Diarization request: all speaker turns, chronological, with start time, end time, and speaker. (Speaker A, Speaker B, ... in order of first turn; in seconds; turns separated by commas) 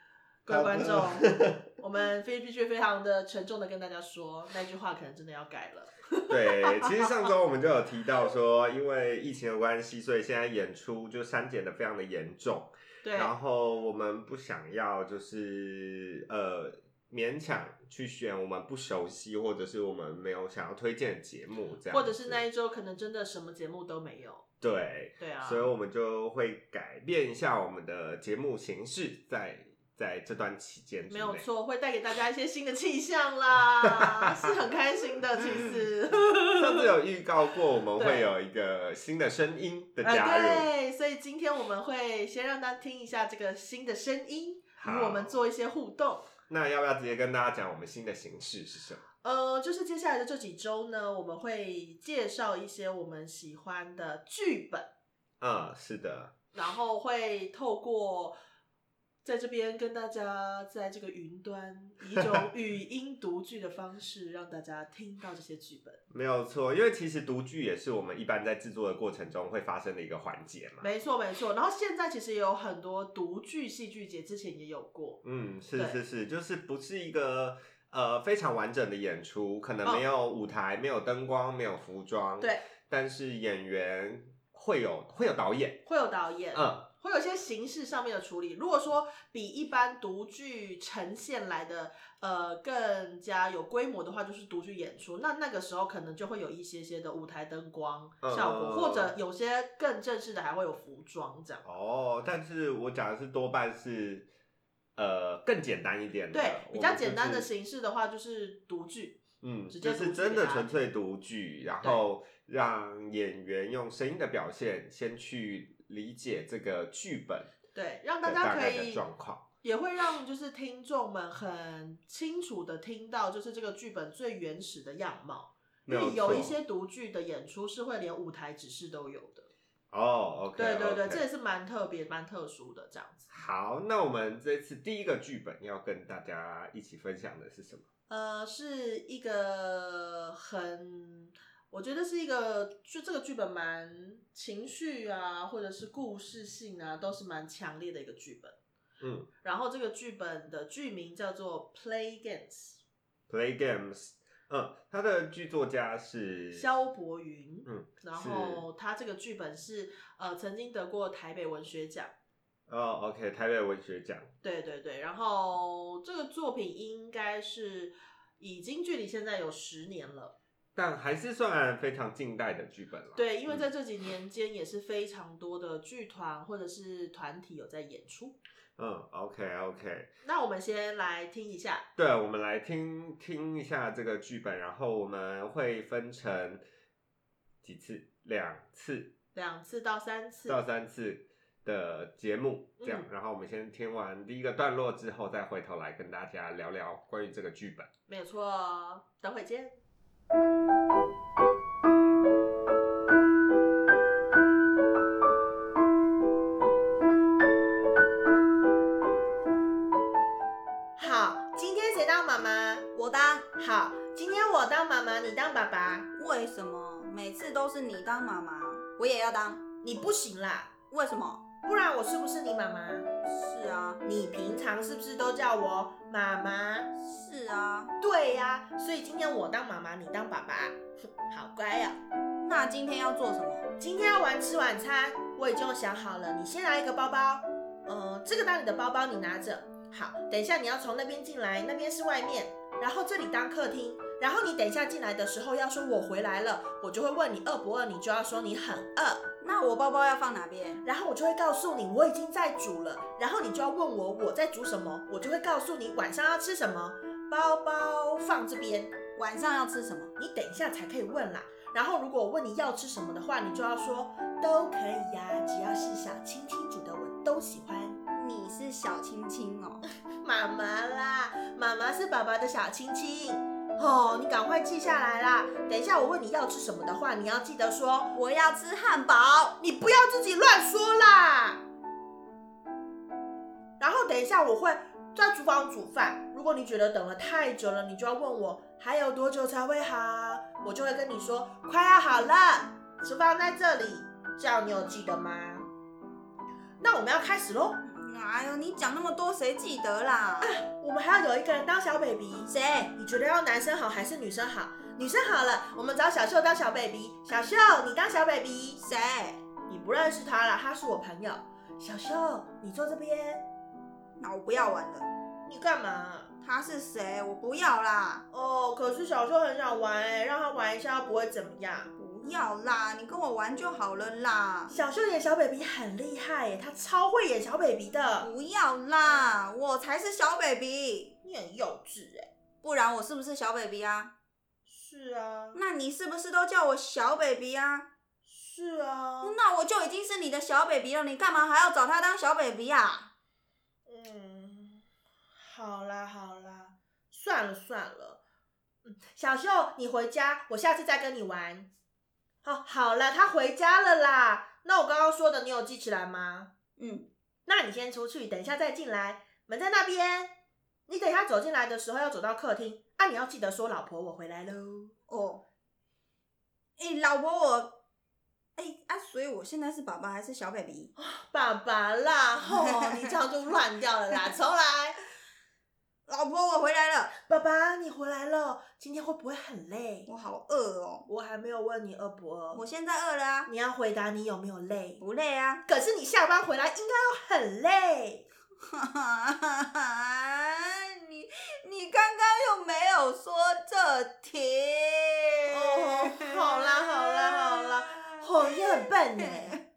Speaker A: 0.5-7.1, Speaker B: 0.5-1.6, Speaker B: 6.3-22.4, Speaker A: 13.0-13.3, Speaker A: 21.9-24.4, Speaker B: 24.6-31.5, Speaker A: 25.2-25.7, Speaker A: 31.1-36.9, Speaker B: 34.1-34.5, Speaker B: 36.5-40.7, Speaker A: 38.0-38.3, Speaker A: 40.0-46.3, Speaker B: 44.8-45.4, Speaker B: 46.5-49.0, Speaker A: 49.2-54.9, Speaker B: 55.4-56.3, Speaker A: 56.5-58.4, Speaker A: 59.2-66.0, Speaker B: 66.1-70.9, Speaker A: 70.8-75.2, Speaker B: 75.2-85.8, Speaker A: 85.8-101.6, Speaker B: 86.5-86.9, Speaker B: 98.2-99.1, Speaker B: 101.6-104.3, Speaker B: 105.0-107.5, Speaker A: 106.3-110.7, Speaker B: 109.4-117.5, Speaker A: 117.7-119.0, Speaker B: 118.2-119.5, Speaker A: 119.6-129.5, Speaker B: 125.9-126.6, Speaker B: 129.9-131.2, Speaker A: 130.6-133.3, Speaker B: 133.3-137.9, Speaker A: 138.1-148.6, Speaker B: 149.0-149.3, Speaker A: 149.4-152.8, Speaker B: 153.3-156.7, Speaker A: 156.5-162.1, Speaker B: 157.7-158.7, Speaker B: 162.7-164.3, Speaker A: 164.4-170.3, Speaker B: 170.8-173.6, Speaker A: 173.2-178.4, Speaker B: 178.8-180.1, Speaker A: 180.2-181.9, Speaker B: 182.0-186.6, Speaker B: 187.6-189.1, Speaker A: 189.3-190.6, Speaker B: 190.5-197.9, Speaker A: 192.8-193.1, Speaker A: 198.1-199.8, Speaker A: 211.0-212.9, Speaker C: 212.9-213.5, Speaker A: 213.6-216.1, Speaker C: 216.1-219.6, Speaker A: 219.8-220.7, Speaker C: 220.9-221.4, Speaker A: 221.6-223.1, Speaker C: 223.3-224.0, Speaker A: 224.0-226.9, Speaker C: 227.0-227.9, Speaker A: 228.0-232.0, Speaker C: 232.4-233.7, Speaker A: 233.8-249.2, Speaker C: 249.4-250.8, Speaker A: 250.8-259.0, Speaker C: 259.2-260.1, Speaker A: 260.2-268.0, Speaker C: 268.2-269.9, Speaker A: 270.2-278.1, Speaker C: 278.1-279.6, Speaker A: 279.6-281.6, Speaker A: 283.8-295.7, Speaker A: 296.8-297.8, Speaker C: 297.8-300.6, Speaker A: 300.4-308.8, Speaker C: 302.5-302.9, Speaker C: 308.8-309.4, Speaker A: 309.7-313.5, Speaker C: 314.2-315.1, Speaker A: 315.5-316.3, Speaker C: 316.4-318.2, Speaker A: 318.3-321.9, Speaker C: 322.0-324.8, Speaker A: 324.7-328.3, Speaker C: 328.2-331.2, Speaker A: 331.2-332.3, Speaker C: 332.6-334.1, Speaker A: 334.7-335.6, Speaker C: 335.5-337.9, Speaker A: 338.3-339.4, Speaker C: 339.2-343.1, Speaker A: 343.9-344.8, Speaker A: 345.4-348.2, Speaker A: 348.9-351.7, Speaker A: 352.4-356.5, Speaker C: 356.8-357.1, Speaker A: 357.5-360.4, Speaker A: 360.9-364.9, Speaker C: 365.1-365.4, Speaker C: 366.8-367.8, Speaker C: 368.6-370.9, Speaker A: 371.0-375.0, Speaker C: 372.5-373.1, Speaker C: 376.1-377.1, Speaker A: 377.3-380.1, Speaker C: 380.1-381.1, Speaker A: 381.1-382.6, Speaker C: 382.5-383.5, Speaker A: 383.5-385.0, Speaker C: 385.0-385.6, Speaker A: 385.7-388.3, Speaker C: 388.6-399.6, Speaker A: 395.5-399.6